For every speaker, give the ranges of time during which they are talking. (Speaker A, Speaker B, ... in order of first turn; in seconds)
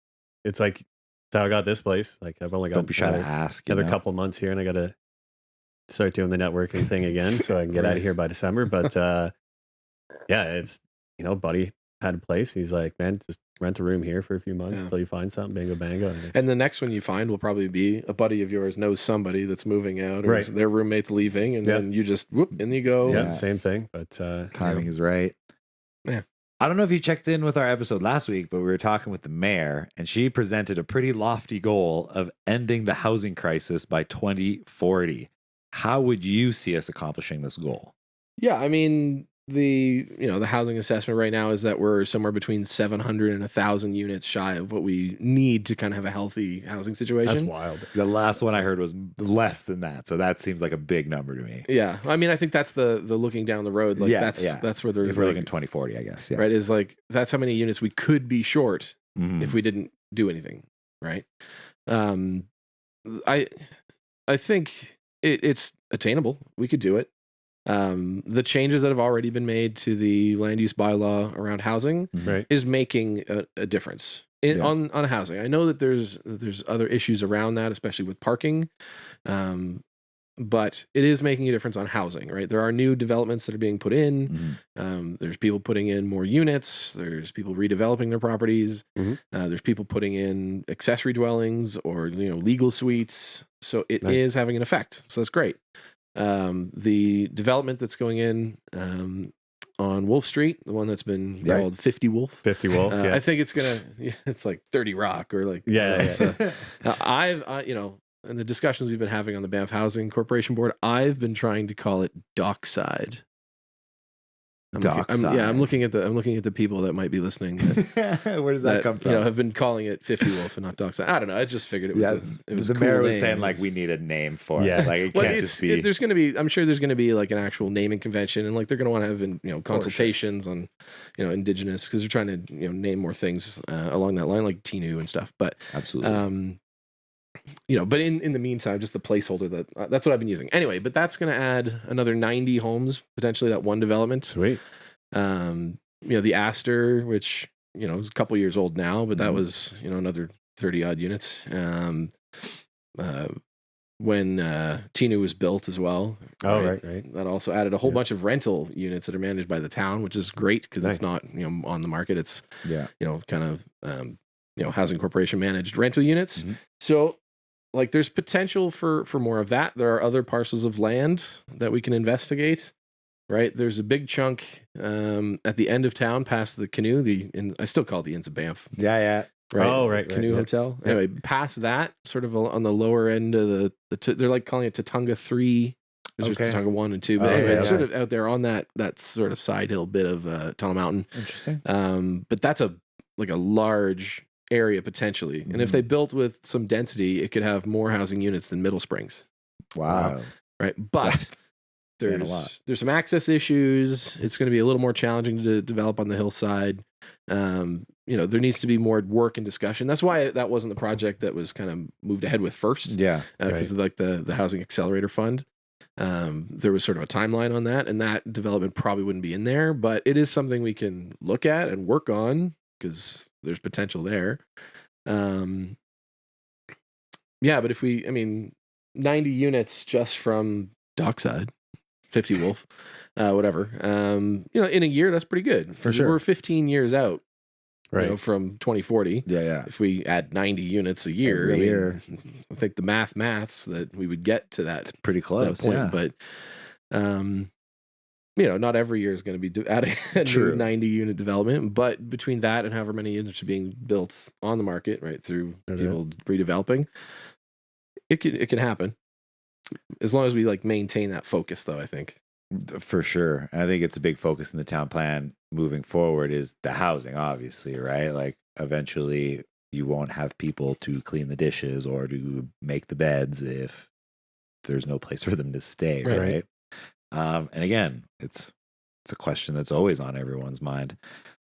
Speaker A: 0.4-5.0, 5.9-9.3, 10.3-16.4, 20.2-20.5, 23.1-24.6, 47.2-47.9, 102.4-103.2, 105.7-106.3, 124.6-125.4, 144.3-144.6, 156.4-157.1, 179.6-181.0, 187.2-187.8, 237.9-238.2, 276.1-276.4
Speaker B: 2.7-4.0, 23.1-23.4, 24.6-25.4, 26.6-37.9, 47.9-51.7, 54.0-56.5, 59.2-59.6, 72.1-72.4, 84.3-84.6, 114.8-115.7, 117.7-119.3, 121.9-125.9, 129.7-130.0, 135.7-136.2, 149.2-149.4, 178.8-179.3, 186.2-186.6, 187.2-187.9, 191.2-191.6, 195.5-195.8, 199.8-200.2, 201.0-201.4, 202.0-202.5, 212.9-213.3, 235.8-236.2, 239.3-239.7, 241.2-242.0, 244.9-246.0, 250.2-250.7, 262.5-273.9, 274.6-276.5, 277.1-278.5, 279.1-281.0
Speaker C: 7.7-8.0, 16.3-23.3, 24.6-24.9, 38.4-47.5, 51.7-55.5, 56.4-61.3, 61.9-62.5, 63.1-63.7, 64.3-67.1, 67.7-78.7, 79.3-79.8, 80.4-95.6, 96.2-113.2, 114.7-117.9, 118.6-123.7, 125.1-136.6, 137.7-144.4, 145.1-153.3, 154.0-167.2, 167.7-172.7, 173.3-178.7, 179.5-199.2, 199.9-201.4, 202.0-215.4, 216.0-224.4, 225.1-225.8, 227.4-231.5, 232.1-237.2, 237.9-246.2, 246.9-247.5, 248.4-256.9, 258.1-258.9, 260.0-262.2, 276.0-276.4